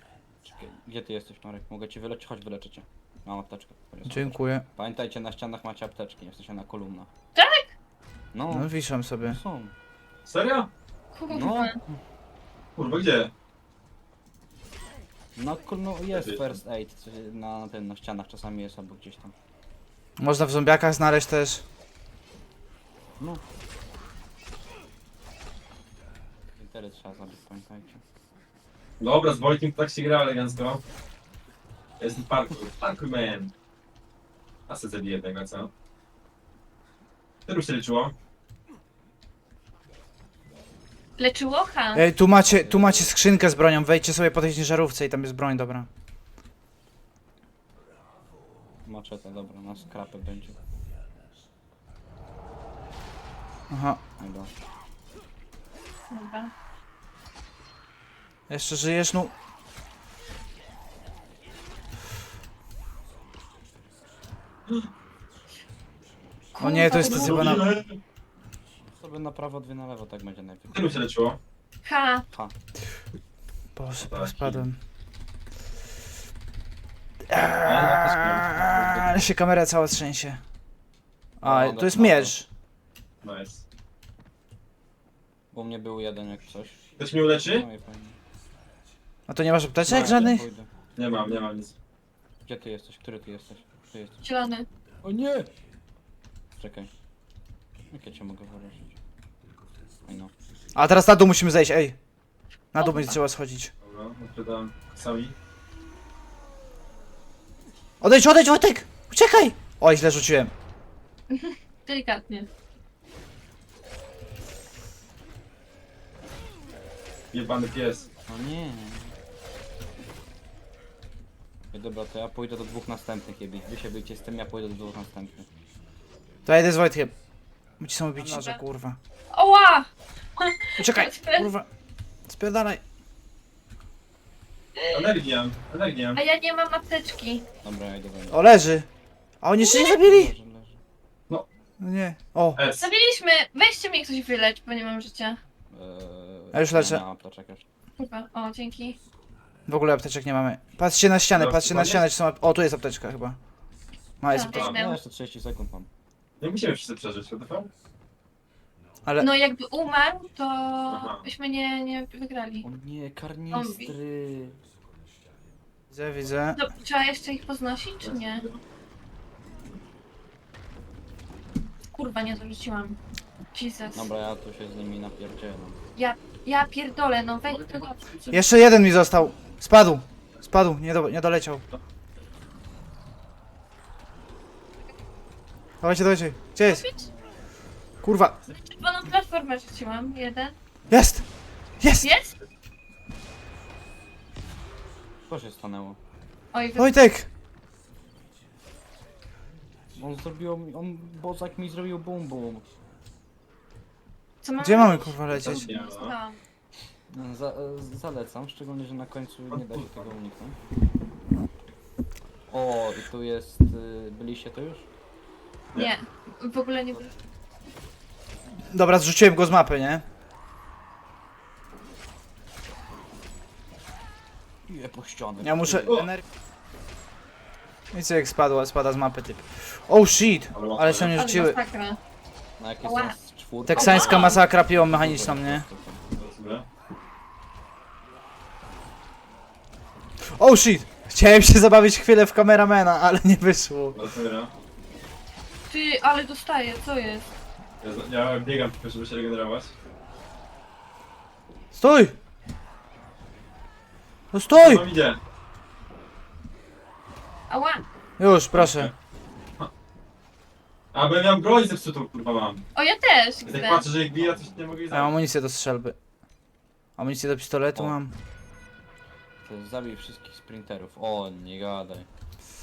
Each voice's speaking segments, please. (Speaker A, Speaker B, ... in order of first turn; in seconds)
Speaker A: 0.4-7.1, 8.3-8.7, 9.2-9.7, 11.3-11.9, 15.3-19.3, 26.5-28.0, 42.4-43.2, 48.8-50.6, 54.2-54.5, 68.9-70.9, 78.4-79.2, 81.4-82.3, 85.5-88.2, 89.8-90.7, 92.4-94.2, 95.0-95.5, 96.6-96.9, 97.9-98.9, 100.0-100.3, 118.3-119.1, 121.7-125.5, 137.6-138.4, 140.0-140.8, 145.7-147.7, 154.6-155.9, 162.6-164.6, 173.9-175.8, 195.3-196.0, 199.9-202.7, 207.1-210.6, 212.5-214.9, 224.6-226.1, 232.6-236.0, 269.4-272.1
Speaker B: 4.0-4.6, 8.5-9.4, 20.2-21.6, 41.9-45.9, 53.7-54.0, 58.5-59.3, 66.6-67.7, 73.8-74.8, 77.3-80.4, 81.4-82.5, 89.3-90.5, 100.7-102.0, 102.7-103.7, 108.0-110.5, 126.4-127.1, 127.8-129.0, 130.8-131.7, 132.3-132.8, 138.3-138.9, 139.4-140.3, 141.8-142.6, 146.5-147.0, 149.7-153.4, 154.2-154.6, 159.0-159.3, 165.9-166.6, 178.3-181.6, 185.8-186.8, 188.0-188.4, 190.9-191.3, 191.8-192.1, 196.8-197.3, 204.6-205.7, 218.7-220.0, 225.4-226.2, 227.9-231.6, 233.7-235.6, 240.3-244.0, 251.7-252.2, 254.3-254.8, 258.2-258.9, 264.9-265.9, 267.0-268.1
Speaker C: 7.3-7.7, 11.1-11.8, 41.2-42.0, 56.1-56.5, 66.5-67.6, 71.8-72.2, 94.2-94.7, 102.8-103.1, 111.3-112.5, 128.2-128.6, 129.3-131.5, 134.8-135.0, 136.1-137.4, 139.6-139.9, 142.8-145.4, 148.0-149.0, 154.3-155.0, 159.2-162.7, 163.5-163.9, 166.5-168.4, 171.9-173.0, 173.5-174.0, 175.9-178.0, 186.6-187.1, 188.5-190.5, 192.0-192.3, 196.5-196.9, 204.4-206.4, 215.7-217.1, 231.1-232.0, 232.8-233.1, 233.8-234.2, 245.7-247.3, 257.5-257.8, 262.7-263.9
Speaker D: 10.2-10.7, 12.8-13.3, 16.1-16.6, 29.0-30.8, 32.0-33.5, 34.7-35.7, 37.5-38.1, 67.0-68.0, 70.7-71.4, 74.0-74.6, 77.6-78.5, 83.2-83.6, 87.0-87.7, 91.0-91.7, 103.8-105.3, 117.3-118.1, 134.9-136.2, 142.6-142.9, 151.3-152.0, 154.5-154.8, 156.4-157.7, 160.9-161.3, 168.0-168.6, 177.7-178.3, 205.3-206.2, 209.6-209.9, 230.5-231.1, 233.8-234.2, 236.2-236.7, 243.9-244.5, 247.8-249.7, 254.5-255.2, 258.5-258.9, 260.9-262.6, 263.4-265.1